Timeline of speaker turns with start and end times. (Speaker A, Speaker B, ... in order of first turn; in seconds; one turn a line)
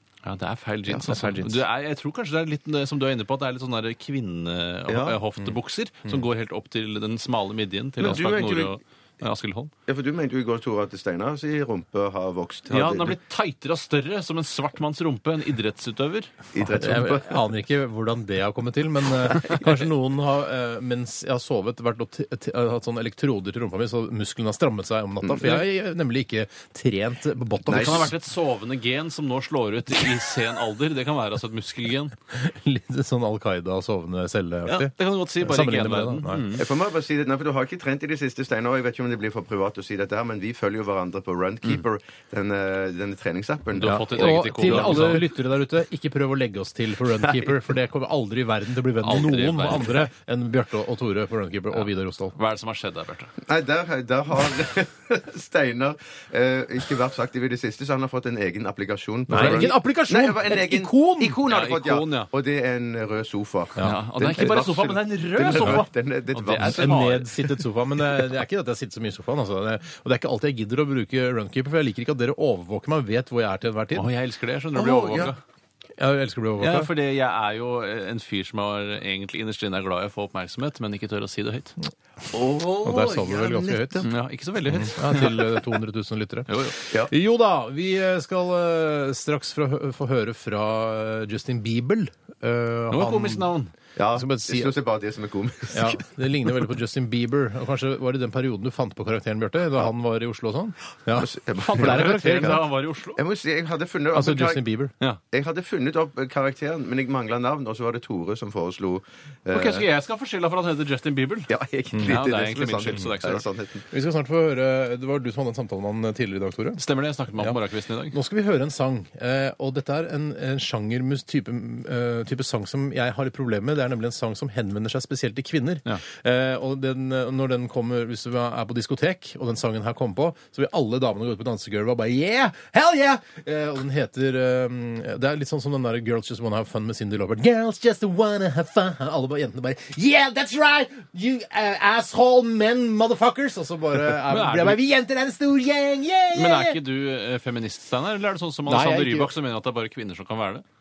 Speaker A: 0.2-9.7
Speaker B: 1.0-1.6
Speaker C: 4.9-5.2
Speaker C: 8.0-8.8
Speaker C: 9.9-13.2
Speaker A: 12.7-16.3
Speaker C: 16.5-17.5
Speaker B: 16.6-28.1
Speaker C: 25.2-25.6
Speaker A: 27.7-32.1
Speaker C: 27.7-28.1
Speaker B: 32.3-36.6
Speaker A: 34.7-36.6
Speaker C: 36.6-45.2
Speaker A: 43.8-45.3
Speaker B: 43.8-52.4
Speaker A: 49.0-50.1
Speaker A: 51.7-53.3
Speaker C: 53.5-67.1
Speaker B: 59.3-61.4
Speaker A: 59.3-59.6
Speaker A: 61.5-62.3
Speaker A: 63.8-67.4
Speaker B: 65.5-65.8
Speaker B: 66.6-74.1
Speaker A: 73.9-75.4
Speaker C: 74.8-75.3
Speaker B: 76.0-76.9
Speaker A: 76.6-81.8
Speaker C: 82.3-84.1
Speaker B: 82.8-84.1
Speaker A: 84.0-85.4
Speaker B: 84.7-93.5
Speaker A: 86.5-86.8
Speaker A: 92.9-93.7
Speaker C: 94.0-96.0
Speaker B: 94.1-94.7
Speaker B: 95.7-102.6
Speaker C: 101.1-102.6
Speaker A: 101.6-103.2
Speaker C: 103.2-104.6
Speaker B: 104.1-104.9
Speaker C: 105.3-109.9
Speaker A: 109.5-111.5
Speaker C: 111.5-113.9
Speaker B: 111.9-112.2
Speaker A: 112.0-113.5
Speaker B: 113.9-116.8
Speaker A: 116.8-118.2
Speaker B: 118.1-146.8
Speaker A: 144.2-144.8
Speaker A: 146.3-150.6
Speaker B: 148.7-149.3